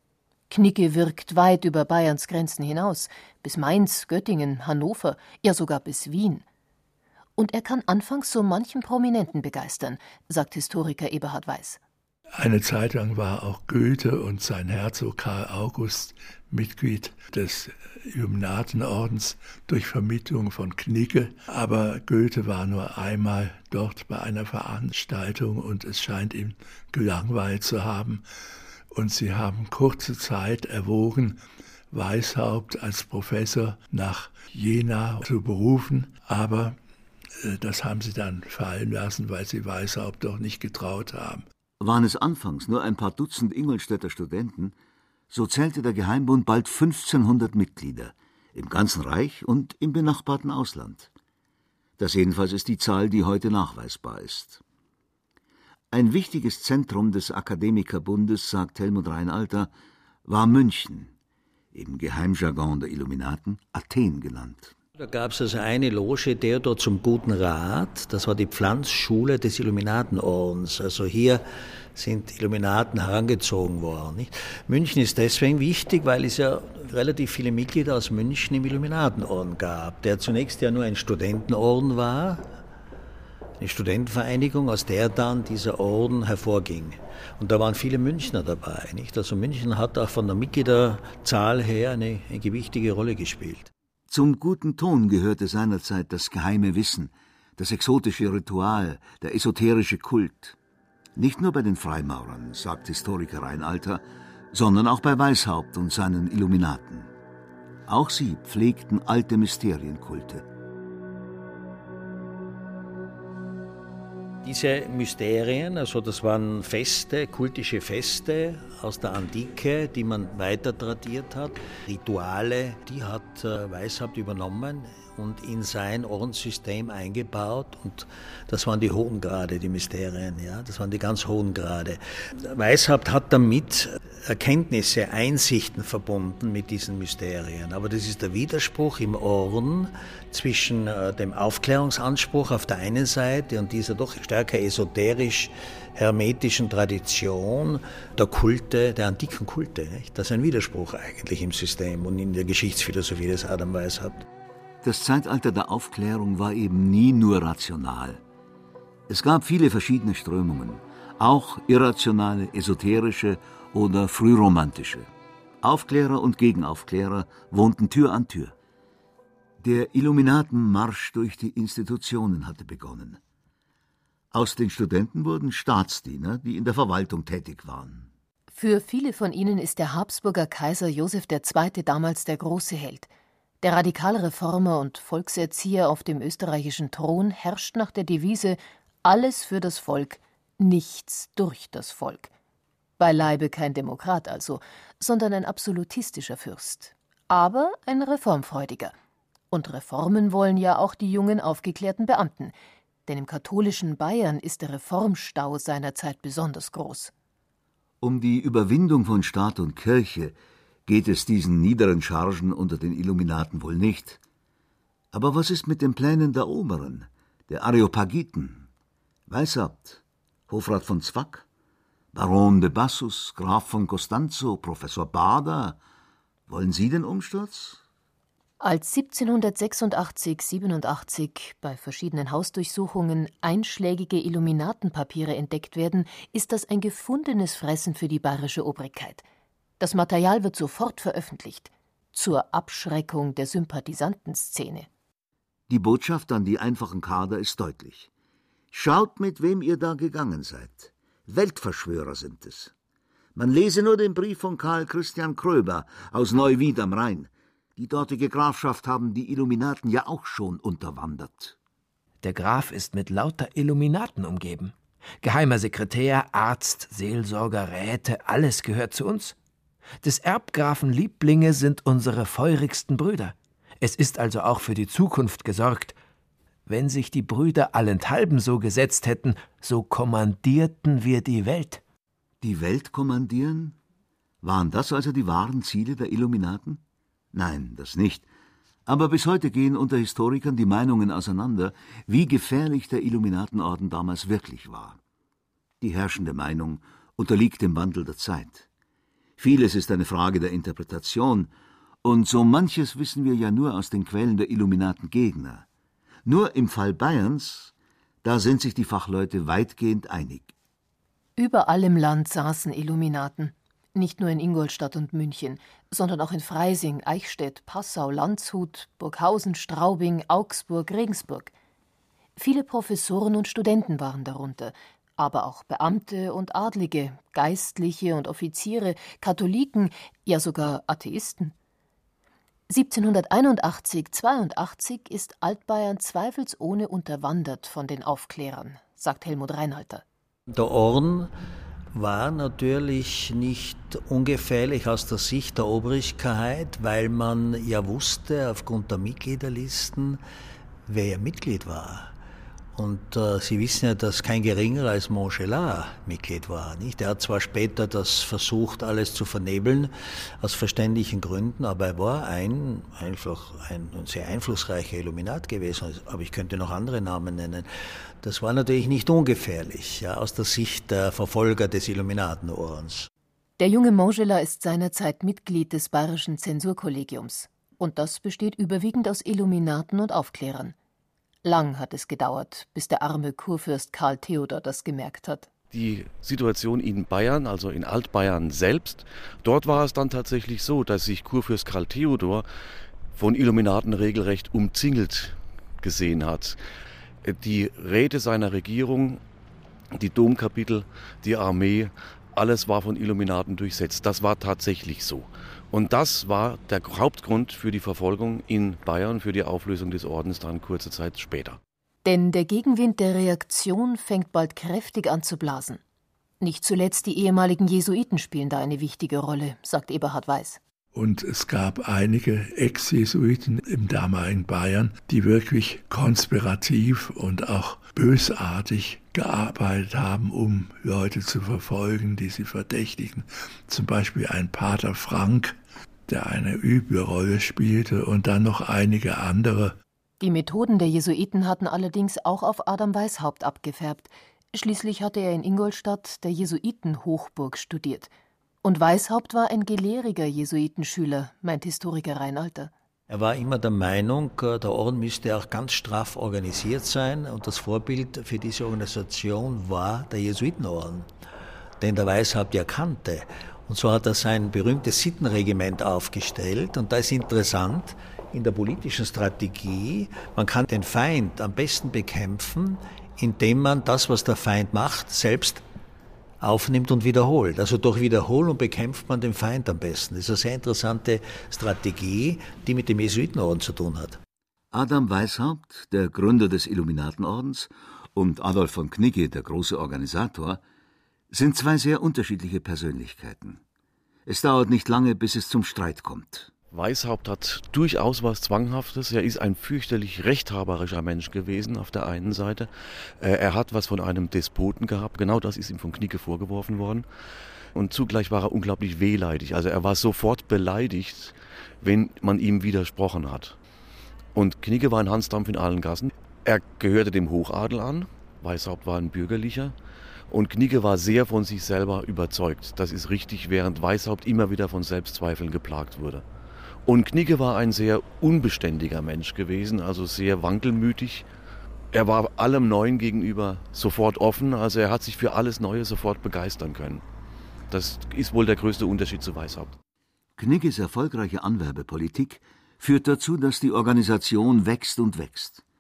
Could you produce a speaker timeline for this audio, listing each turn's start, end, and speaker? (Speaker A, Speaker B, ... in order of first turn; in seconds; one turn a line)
Speaker A: 0.5-6.4
Speaker A: 7.4-11.8
Speaker B: 12.3-28.2
Speaker B: 28.9-36.8
Speaker B: 37.4-41.4
Speaker C: 41.8-44.7
Speaker C: 45.3-51.1
Speaker C: 52.0-54.6
Speaker C: 55.9-59.7
Speaker C: 60.2-61.1
Speaker C: 61.7-64.7
Speaker D: 65.0-71.4
Speaker D: 71.9-82.5
Speaker D: 83.6-93.7
Speaker C: 94.1-100.5
Speaker C: 101.2-107.1
Speaker C: 107.9-110.4
Speaker D: 114.4-154.2
Speaker C: 154.8-158.2
Speaker C: 159.1-165.1
Speaker C: 165.6-168.5
Speaker C: 169.6-173.2
Speaker C: 174.3-178.1
Speaker A: 178.5-183.1
Speaker A: 183.6-192.3
Speaker A: 193.0-198.9
Speaker A: 199.5-202.5
Speaker A: 203.1-207.1
Speaker C: 208.0-210.3
Speaker C: 210.9-214.2
Speaker C: 215.1-218.7
Speaker C: 219.3-221.4
Speaker C: 222.1-225.8
Speaker C: 226.5-227.8
Speaker A: 228.6-239.2
Speaker A: 239.8-244.9
Speaker C: 245.7-248.1
Speaker C: 248.7-252.7
Speaker C: 253.3-261.6
Speaker E: 262.2-269.3
Speaker E: 270.0-275.9
Speaker E: 276.7-281.8
Speaker C: 282.4-283.8
Speaker C: 284.4-286.8
Speaker C: 287.3-288.3
Speaker C: 288.9-295.0
Speaker C: 295.8-298.6
Speaker C: 299.4-301.5
Speaker C: 302.0-305.6
Speaker C: 306.2-310.5
Speaker A: 311.4-321.5
Speaker A: 322.4-331.5
Speaker A: 332.7-340.0
Speaker D: 340.5-341.3
Speaker D: 341.9-350.2
Speaker D: 350.9-352.1
Speaker D: 352.7-367.7
Speaker D: 368.2-373.1
Speaker A: 373.6-380.7
Speaker A: 381.4-385.5
Speaker F: 385.7-392.4
Speaker F: 393.1-396.6
Speaker F: 397.2-399.2
Speaker F: 399.9-411.6
Speaker A: 412.0-415.8
Speaker A: 416.4-420.6
Speaker B: 420.9-439.8
Speaker A: 440.2-448.1
Speaker A: 448.6-452.7
Speaker D: 453.1-461.1
Speaker D: 461.8-475.6
Speaker D: 476.4-484.2
Speaker C: 484.7-490.6
Speaker C: 491.3-493.6
Speaker C: 494.2-496.5
Speaker F: 496.7-507.1
Speaker F: 507.7-513.6
Speaker F: 514.3-519.7
Speaker F: 520.3-526.2
Speaker F: 526.9-531.2
Speaker F: 531.9-537.0
Speaker F: 537.7-539.8
Speaker C: 540.4-545.6